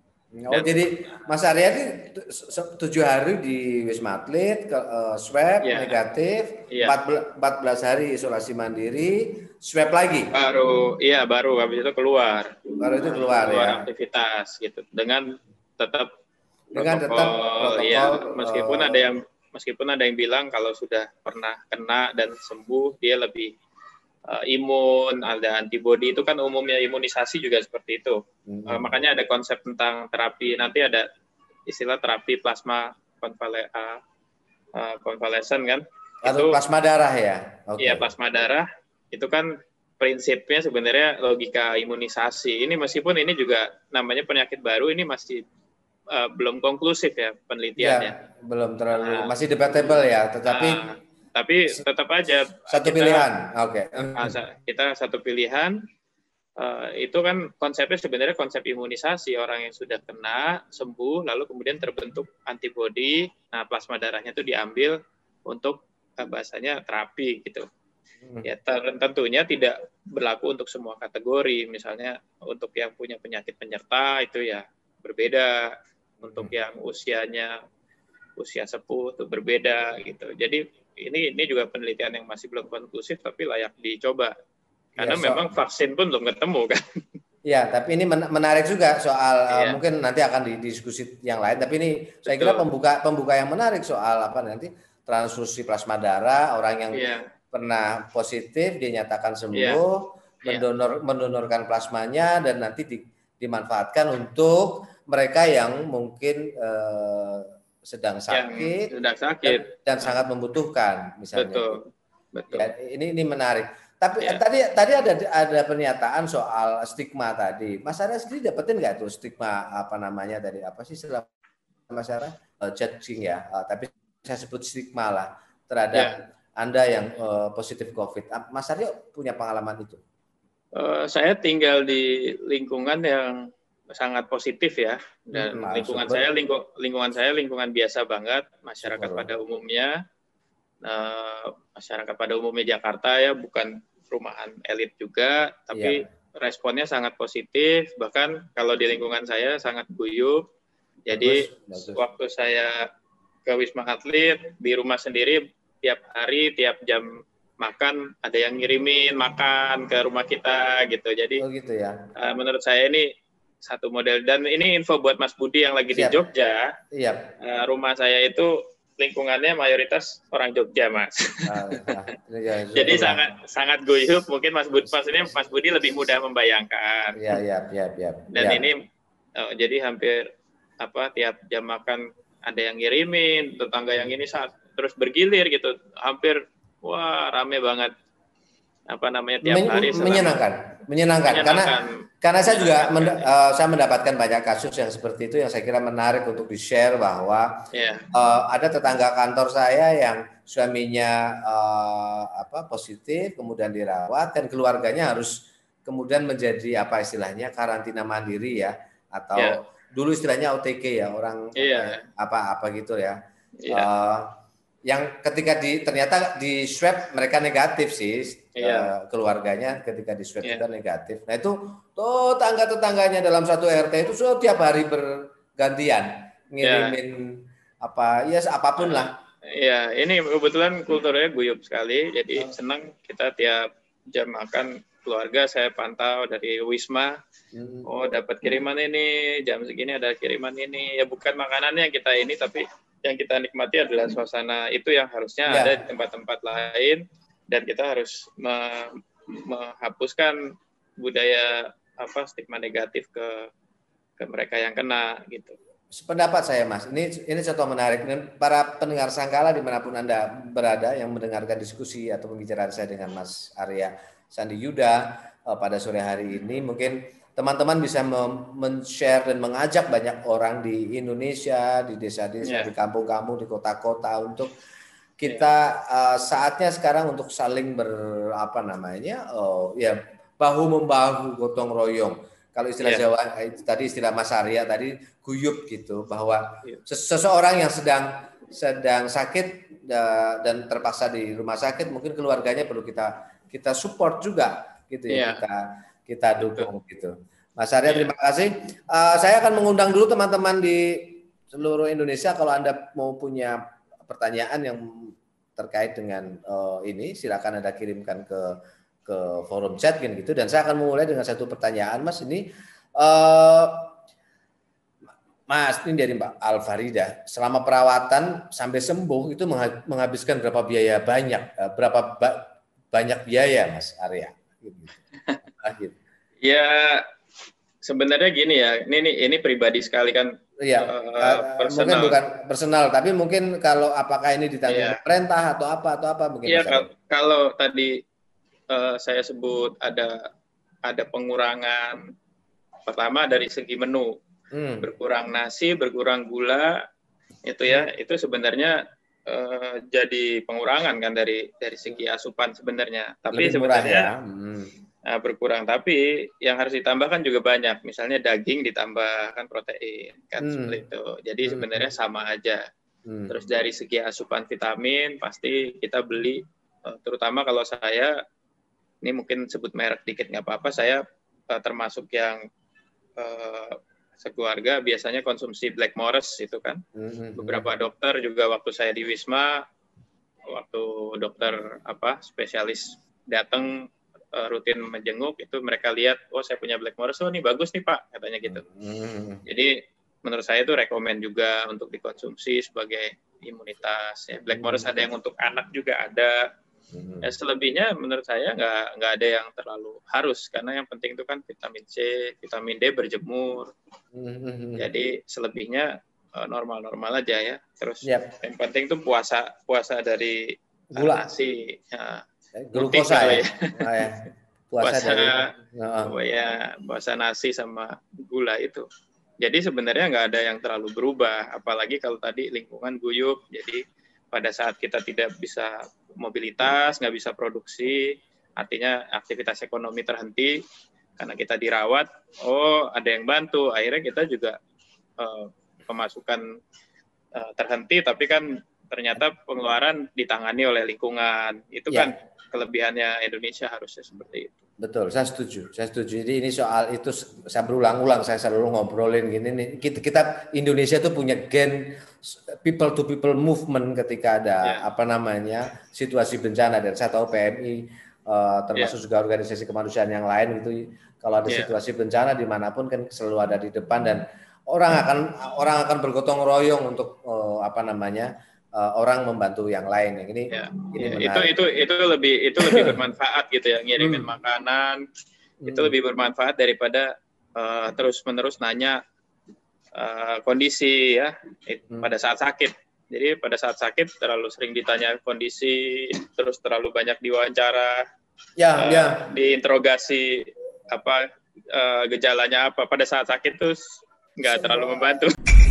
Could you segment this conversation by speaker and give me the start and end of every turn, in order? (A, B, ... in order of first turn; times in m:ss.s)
0:00.4-0:10.3 A
0:00.5-0:00.8 B
0:05.6-0:06.0 B
0:06.7-0:07.0 B
0:10.3-0:16.1 B
0:12.8-0:13.8 A
0:16.7-0:19.1 A
0:16.8-0:23.5 B
0:24.3-0:31.1 B
0:28.5-0:28.9 A
0:31.7-0:34.0 B
0:34.8-0:36.6 B
0:36.2-0:38.0 A
0:37.8-0:45.4 B
0:46.1-0:48.2 B
0:47.8-0:50.8 A
0:48.9-0:49.3 B
0:50.5-0:53.3 B
0:52.7-0:54.4 A
0:54.2-0:55.8 B
0:56.6-1:05.0 B
1:05.5-1:07.7 B
1:08.4-1:17.6 B
1:16.2-1:16.5 A
1:18.4-1:24.3 B
1:25.0-1:26.8 B
1:25.0-1:25.5 A
1:27.4-1:48.9 A
1:29.5-1:29.8 B
1:32.3-1:32.6 B
1:36.9-1:37.3 B
1:39.5-1:39.8 B
1:48.3-1:50.1 B
1:49.4-1:51.8 A
1:51.4-1:52.7 B
1:52.5-2:01.3 A
2:01.9-2:10.0 A
2:10.8-2:20.0 B
2:15.4-2:16.2 A
2:18.8-2:19.3 A
2:20.8-2:30.4 B
2:25.7-2:26.1 A
2:31.1-2:32.8 B
2:31.1-2:32.0 A
2:33.5-2:41.4 B
2:41.4-2:42.1 A
2:42.2-2:43.1 B
2:43.6-2:46.7 B
2:45.9-2:46.2 A
2:46.9-2:47.3 A
2:47.4-2:52.0 B
2:51.5-2:53.2 A
2:52.8-2:57.2 B
2:57.2-2:58.6 A
2:58.3-2:58.8 B
2:59.4-3:00.3 B
3:00.8-3:07.9 B
3:08.9-3:10.4 B
3:09.4-3:17.5 A
3:11.3-3:13.3 B
3:17.7-3:18.1 B
3:18.1-3:33.2 A
3:31.6-3:32.0 B
3:33.6-3:33.9 B
3:33.7-3:34.3 A
3:34.9-3:49.1 A
3:38.6-3:38.9 B
3:46.6-3:47.0 B
3:48.8-3:57.2 B
3:57.6-3:57.9 A
3:57.9-4:10.4 B
4:05.5-4:05.8 A
4:11.0-4:13.5 B
4:14.2-4:15.6 B
4:15.9-4:34.5 A
4:32.4-4:32.7 B
4:35.2-5:13.9 A
4:55.1-4:55.4 B
4:56.4-4:56.7 B
5:15.5-5:26.0 A
5:26.4-5:27.1 B
5:27.8-5:32.2 B
5:30.6-5:36.9 A
5:34.7-5:35.0 B
5:36.5-5:38.0 B
5:38.7-5:40.3 B
5:40.8-5:42.1 B
5:42.9-5:44.2 B
5:44.5-5:44.9 A
5:44.8-5:46.8 B
5:47.5-5:54.1 B
5:53.3-5:54.7 A
5:55.1-6:02.6 B
6:00.4-6:00.8 A
6:01.4-6:01.9 A
6:03.1-6:03.3 A
6:03.3-6:08.1 B
6:09.0-6:12.4 B
6:13.2-6:16.8 B
6:17.0-6:17.7 A
6:17.4-6:19.6 B
6:20.5-6:28.6 B
6:28.4-6:29.4 A
6:29.5-6:36.4 B
6:34.5-6:34.9 A
6:36.9-6:37.3 A
6:37.2-6:43.7 B
6:44.1-6:44.9 A
6:44.8-6:53.8 B
6:48.0-6:48.3 A
6:50.9-6:51.2 A
6:52.6-6:56.1 A
6:54.8-6:55.5 B
6:56.0-6:58.9 B
6:59.4-7:10.6 B
7:11.2-7:14.6 B
7:15.2-7:16.4 B
7:17.4-7:24.6 B
7:24.8-7:51.5 A
7:41.5-7:41.7 B
7:50.5-7:55.0 B
7:52.6-7:53.0 A
7:54.0-7:54.3 A
7:55.6-7:56.0 A
7:55.7-7:59.0 B
8:00.0-8:08.0 B
8:08.6-8:09.2 A
8:08.8-8:15.3 B